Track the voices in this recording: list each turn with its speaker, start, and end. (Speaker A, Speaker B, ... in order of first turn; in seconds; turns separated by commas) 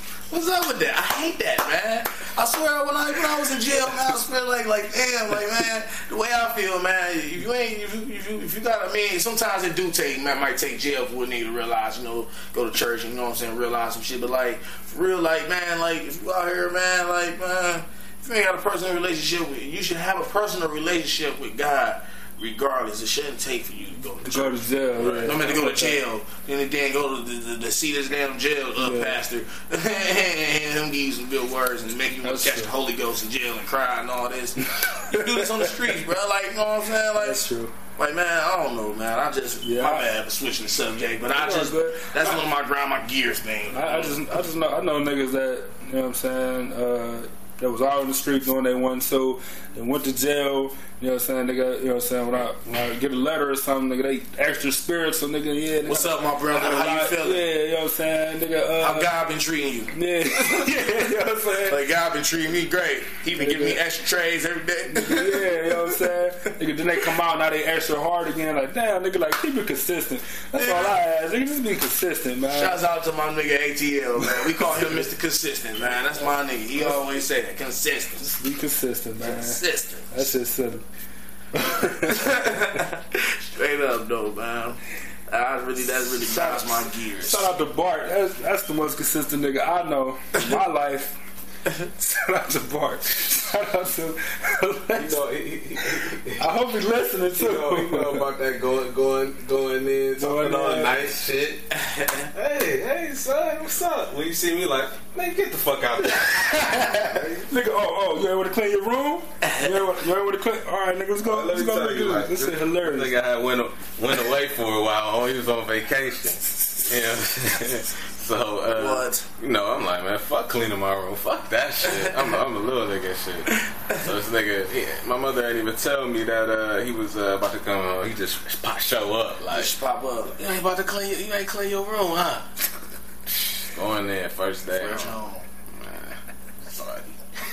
Speaker A: 0.3-24.6, Speaker B: 24.2-26.0, Speaker C: 25.0-25.4, Speaker A: 25.2-37.4, Speaker B: 28.8-29.2, Speaker B: 32.2-32.7, Speaker B: 34.6-35.7, Speaker B: 37.2-37.7, Speaker A: 38.0-44.4, Speaker B: 39.6-40.1, Speaker B: 41.3-42.4, Speaker B: 43.7-59.1, Speaker A: 55.9-57.5, Speaker A: 58.8-60.8, Speaker B: 59.9-61.8, Speaker A: 61.6-66.0, Speaker B: 63.3-63.8, Speaker B: 64.9-72.8, Speaker A: 70.5-71.0, Speaker A: 72.5-78.3, Speaker B: 74.3-75.0, Speaker B: 78.2-80.8, Speaker A: 79.2-80.3, Speaker B: 81.5-82.3, Speaker A: 82.0-87.5, Speaker B: 86.2-91.2, Speaker B: 91.7-95.2, Speaker C: 95.0-96.5, Speaker B: 96.4-98.2, Speaker C: 97.4-101.7, Speaker B: 100.2-101.0, Speaker A: 101.7-102.2, Speaker C: 102.3-107.5, Speaker B: 106.2-113.1, Speaker A: 109.4-109.9, Speaker C: 111.2-129.7, Speaker A: 118.7-119.3, Speaker A: 123.5-124.1, Speaker A: 129.5-130.4, Speaker C: 130.3-132.5, Speaker C: 133.2-135.1, Speaker A: 134.7-135.4, Speaker C: 135.7-137.1